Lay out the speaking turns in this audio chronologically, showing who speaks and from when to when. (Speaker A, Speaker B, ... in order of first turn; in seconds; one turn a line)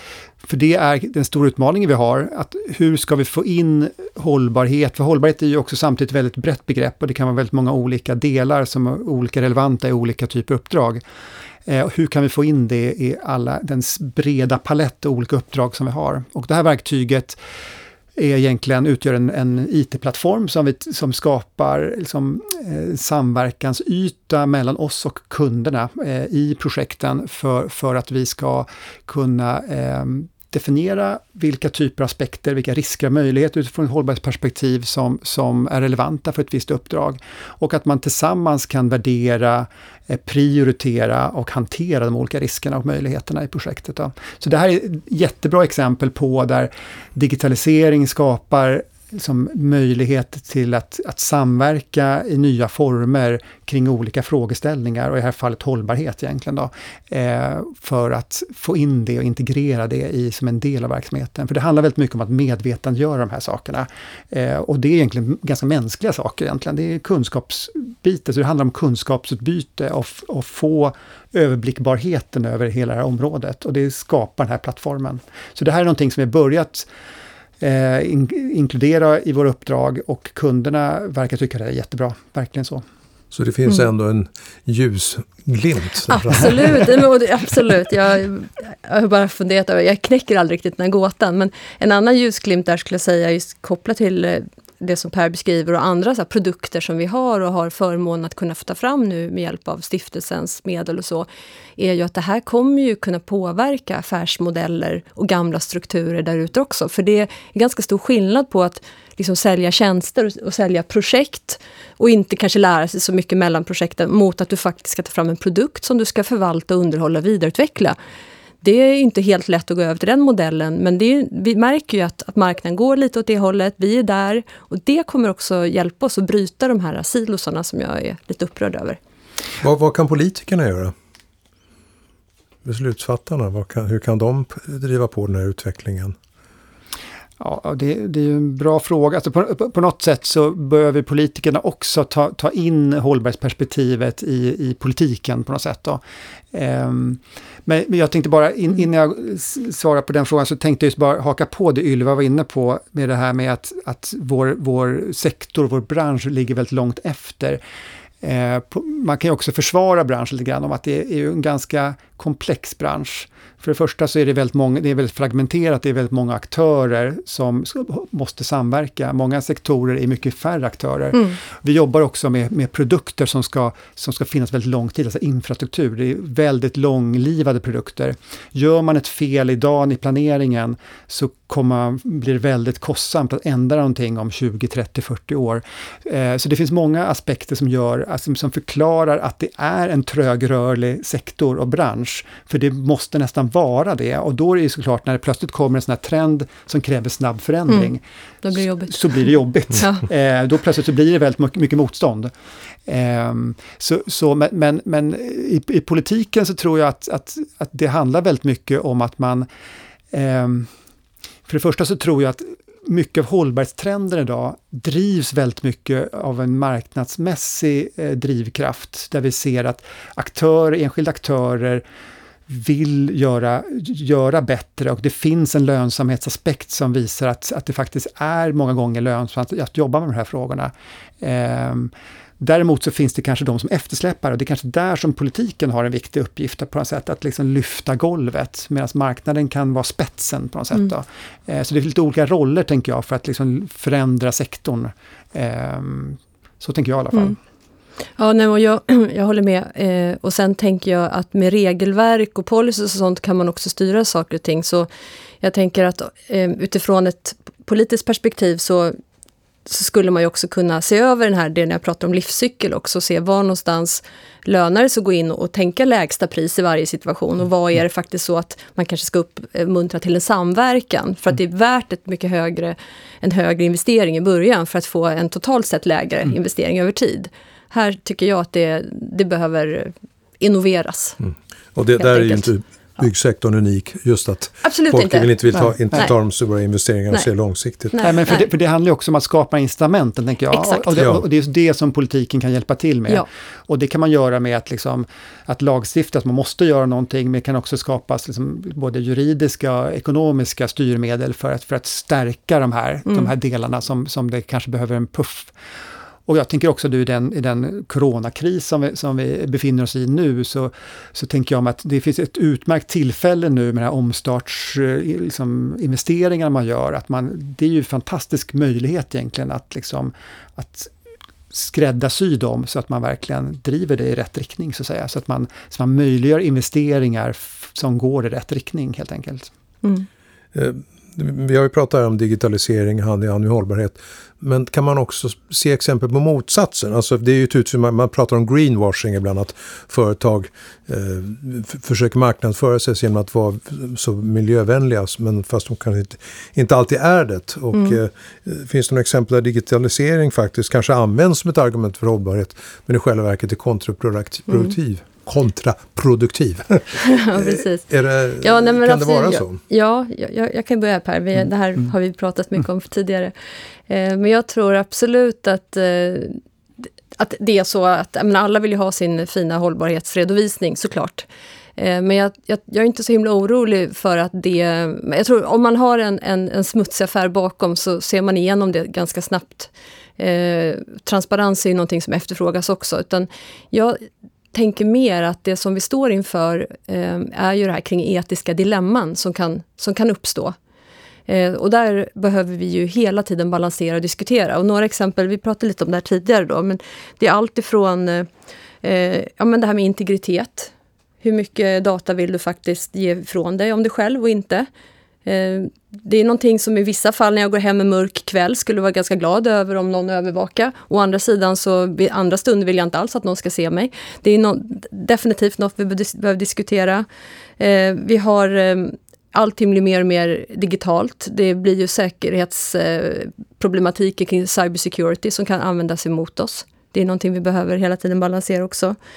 Speaker A: 0.4-11.0
Speaker A: 11.7-17.4
Speaker A: 18.1-76.9
Speaker A: 77.6-82.8
Speaker B: 83.3-87.0
Speaker C: 86.1-118.0
Speaker C: 118.6-129.0
Speaker B: 129.6-130.9
Speaker B: 132.6-136.2
Speaker A: 137.4-146.0
Speaker A: 146.5-157.6
Speaker A: 158.2-198.0
Speaker C: 197.7-199.1
Speaker A: 198.6-202.3
Speaker C: 199.8-200.1
Speaker A: 202.8-209.5
Speaker A: 210.1-210.7
Speaker A: 211.5-221.8
Speaker A: 222.5-247.4
Speaker C: 248.2-254.9
Speaker C: 255.4-259.0
Speaker C: 259.6-281.2
Speaker B: 281.2-287.9
Speaker C: 282.0-282.5
Speaker C: 284.6-285.3
Speaker A: 285.5-286.0
Speaker C: 287.9-288.4
Speaker A: 288.0-305.5
Speaker C: 290.5-290.9
Speaker C: 303.1-303.3
Speaker A: 306.3-320.9
Speaker A: 321.5-329.5
Speaker B: 330.5-359.6
Speaker C: 347.7-348.0
Speaker C: 354.5-354.7
Speaker C: 357.0-363.3
Speaker C: 363.9-366.4
Speaker C: 367.1-384.0
Speaker C: 384.5-390.5
Speaker C: 391.3-398.3
Speaker C: 398.8-404.7
Speaker C: 405.2-417.1
Speaker C: 417.6-428.9